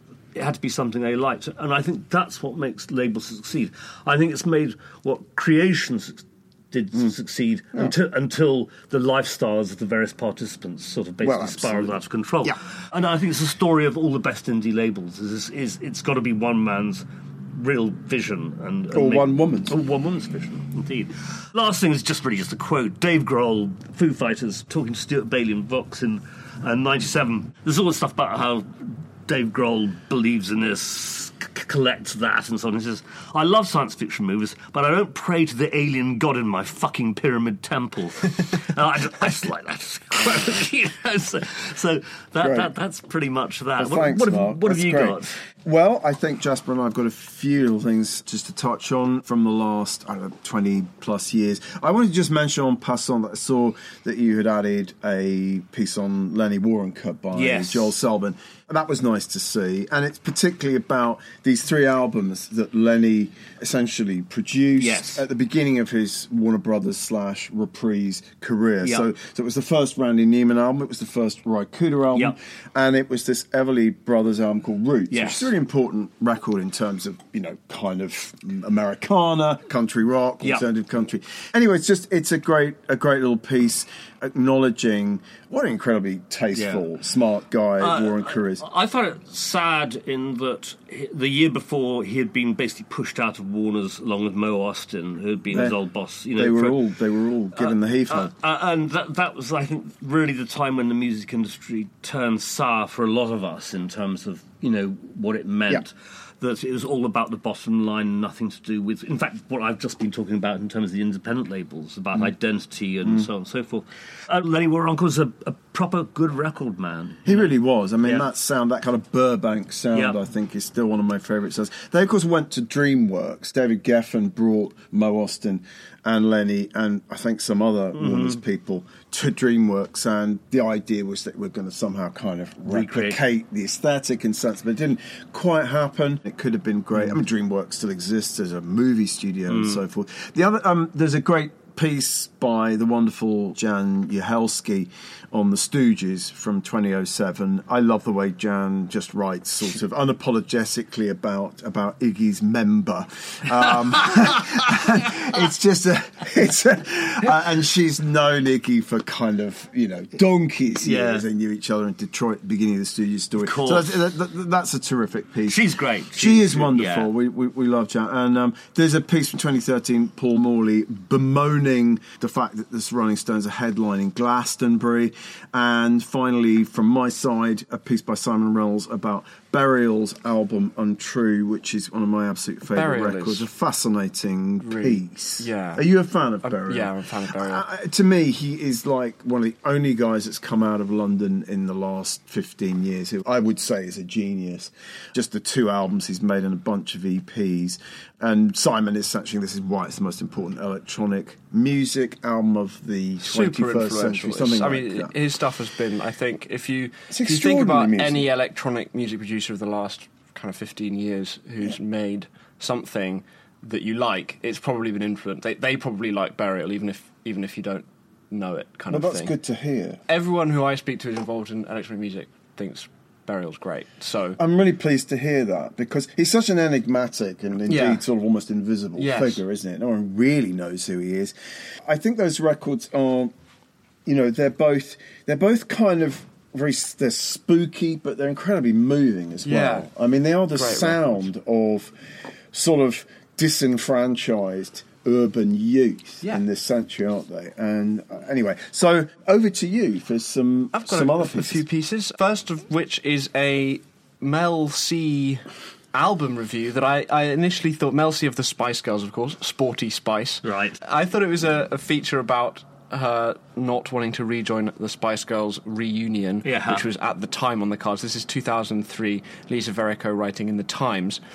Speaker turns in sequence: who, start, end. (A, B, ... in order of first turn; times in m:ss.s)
0:00.3-0:45.4 A
0:11.2-0:12.6 B
0:18.9-0:19.8 B
0:42.4-0:42.7 B
0:43.8-1:28.6 B
0:57.3-0:57.9 A
1:04.8-1:05.2 A
1:15.1-1:15.5 A
1:26.5-1:26.8 A
1:27.8-1:36.8 A
1:36.3-1:38.3 B
1:37.5-1:58.3 A
1:57.2-3:25.2 B
2:07.9-2:08.4 A
2:12.6-2:13.2 A
2:19.5-2:19.8 A
2:40.8-2:41.2 A
2:43.4-2:44.0 A
2:45.5-2:47.1 A
3:02.7-3:03.4 C
3:04.6-3:05.8 C
3:06.4-3:07.6 C
3:23.2-3:39.3 C
3:27.1-3:28.3 B
3:38.9-3:40.0 B
3:40.1-3:44.4 C
3:44.4-3:51.3 B
3:47.7-3:48.0 C
3:49.0-3:49.4 C
3:51.8-3:53.3 B
3:54.0-4:01.9 B
3:59.4-3:59.9 C
4:00.5-4:01.2 C
4:02.5-4:11.6 B
4:10.7-4:31.2 C
4:20.4-4:20.8 A
4:26.4-4:26.8 A